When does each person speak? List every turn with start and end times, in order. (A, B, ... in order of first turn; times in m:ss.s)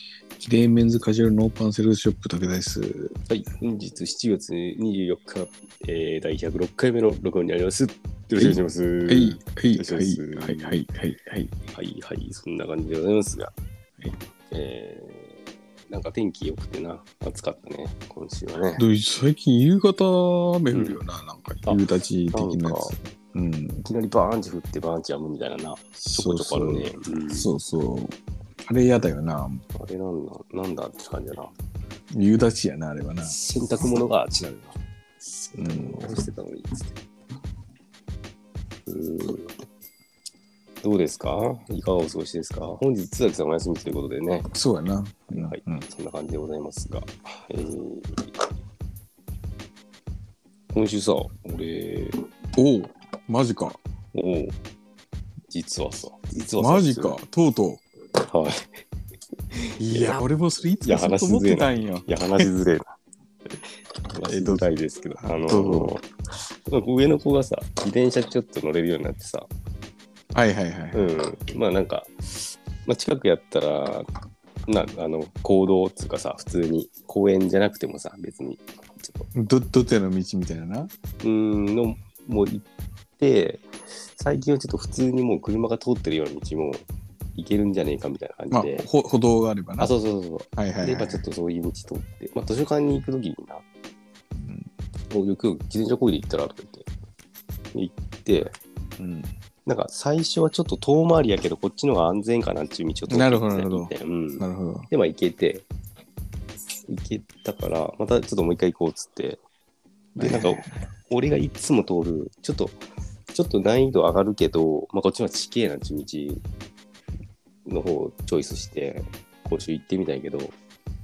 0:00.4-0:03.1 A
0:03.3-0:10.8 B
0:08.4-0:11.6 A
0:11.7-0:13.5 B
0:14.5-0:18.8 B
0:18.8-0:23.8 A
0:20.7-0:21.0 B
0:21.6-0:23.0 B
0:23.8-0:27.5 B
0:26.0-0:29.6 A
0:29.7-0:31.5 B
0:32.1-0:33.4 A
0:33.2-0:34.8 B
0:35.5-0:36.2 A
0:35.5-0:37.0 B
0:38.8-0:39.5 B
0:40.8-0:44.5 B
0:44.5-0:45.8 A
0:45.3-0:48.3 B
0:50.7-0:52.2 B
0:52.6-0:53.8 A
0:54.1-0:54.5 B
0:55.5-0:57.2 B
0:56.6-0:57.8 A
0:58.2-0:58.7 B
0:59.5-1:00.2 B
0:59.8-1:02.5 A
1:00.8-1:03.0 B
1:04.1-1:09.5 B
1:04.2-1:04.7 A
1:05.2-1:05.9 A
1:10.3-1:11.2 A
1:10.9-1:14.1 B
1:14.7-1:19.3 B
1:19.3-1:20.9 A
1:21.2-1:22.6 B
1:23.2-1:28.9 B
1:28.5-1:29.9 A
1:29.8-1:33.6 B
1:30.6-1:31.2 A
1:34.3-1:34.7 A
1:35.1-1:36.9 B
1:37.7-1:38.5 B
1:39.0-1:39.3 A
1:39.6-1:45.6 B
1:43.1-1:44.9 A
1:46.9-1:49.4 B
1:50.2-1:50.8 A
1:50.2-1:52.8 B
1:53.3-1:56.4 B
1:57.6-2:00.5 B